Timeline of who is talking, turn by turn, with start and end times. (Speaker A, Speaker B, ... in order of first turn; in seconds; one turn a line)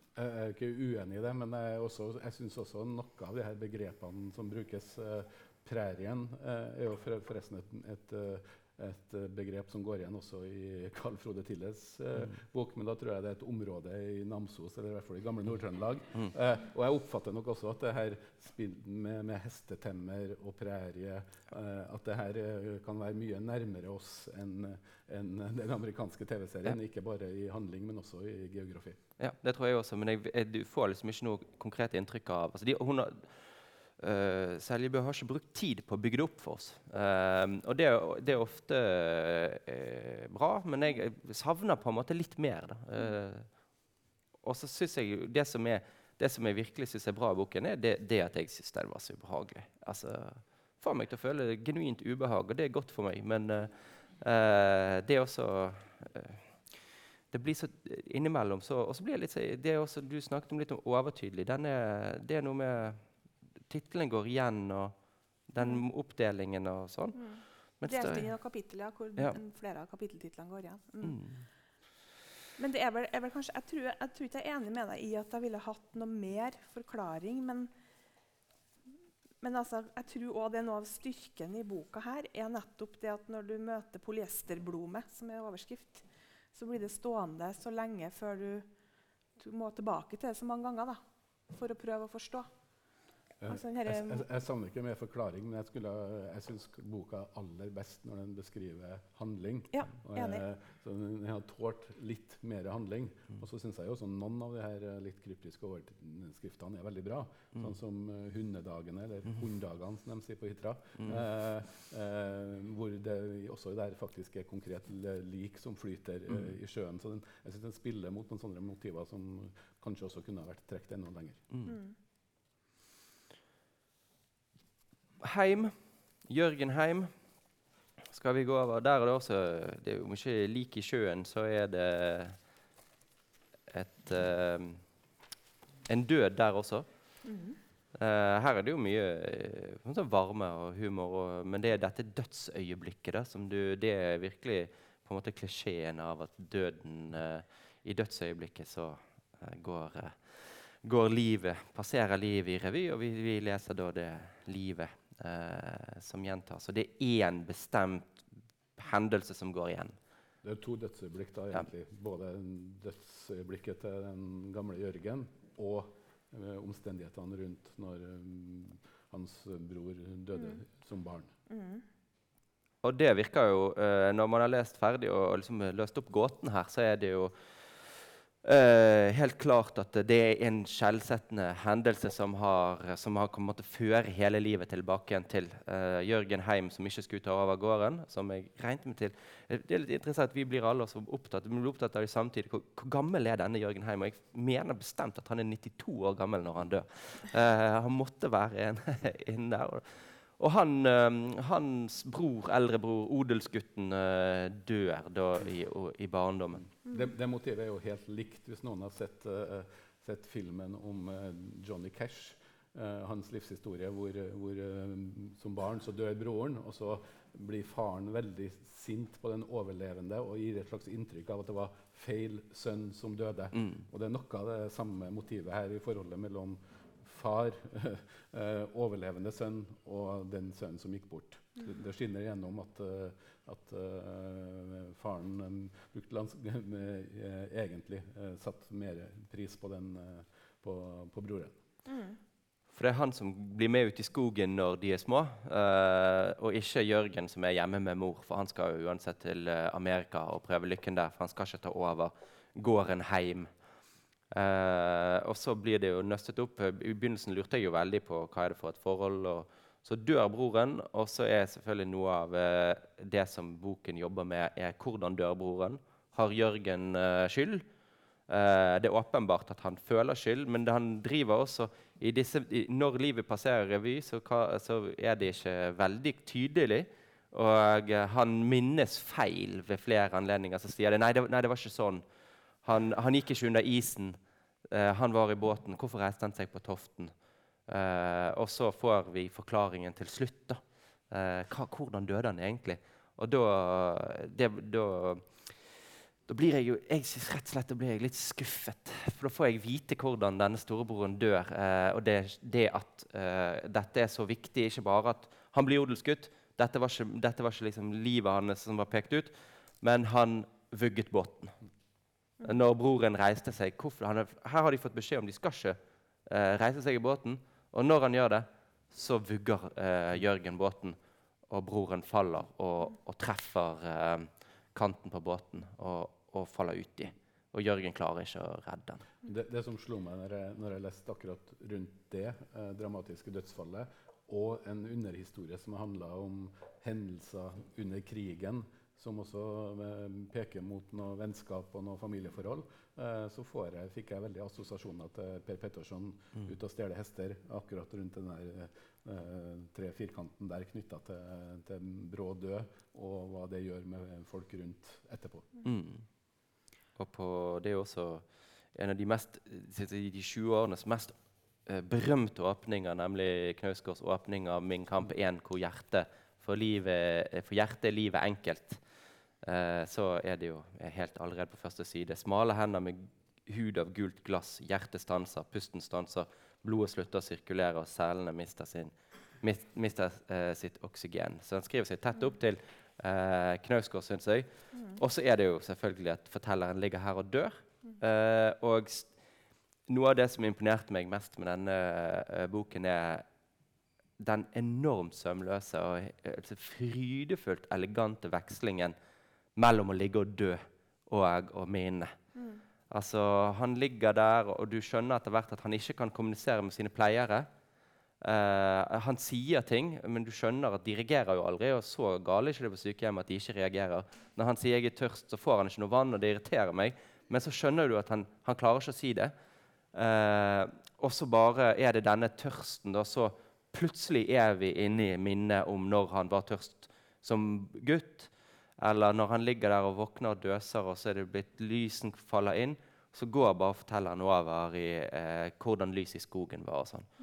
Speaker A: 0.1-29.0
Speaker B: 29.2-43.5
Speaker B: 44.4-56.7
Speaker B: 57.3-63.0
Speaker B: 63.7-64.9
Speaker B: 65.5-67.2
Speaker C: 67.1-71.2
Speaker B: 67.8-68.3
Speaker B: 71.0-71.4
Speaker C: 72.6-77.7
Speaker C: 79.4-88.7
Speaker C: 89.4-92.5
Speaker A: 93.4-121.5
Speaker C: 93.5-94.2
Speaker C: 99.7-100.4
Speaker C: 121.7-121.9
Speaker B: 125.2-127.1
Speaker B: 128.1-132.4
Speaker B: 133.7-134.8
Speaker B: 135.9-136.8
Speaker C: 137.2-137.6
Speaker B: 137.9-158.2
Speaker B: 158.8-159.9
Speaker A: 160.4-171.3
Speaker C: 171.5-171.8
Speaker B: 172.8-206.7
Speaker A: 206.8-241.6
Speaker C: 241.8-242.2
Speaker B: 242.7-253.5
Speaker B: 254.3-267.6
Speaker B: 268.3-282.0
Speaker B: 282.6-287.1
Speaker B: 287.7-295.7
Speaker B: 296.2-311.6
Speaker B: 312.4-321.0
Speaker B: 321.5-329.1
Speaker A: 329.2-355.5
Speaker B: 355.6-356.0
Speaker B: 357.0-368.8
Speaker B: 369.4-389.1
Speaker B: 389.9-393.2
Speaker B: 394.2-398.9
Speaker B: 399.6-402.1
Speaker C: 402.3-402.6
Speaker B: 402.9-407.5
Speaker B: 408.2-419.3
Speaker B: 419.9-437.1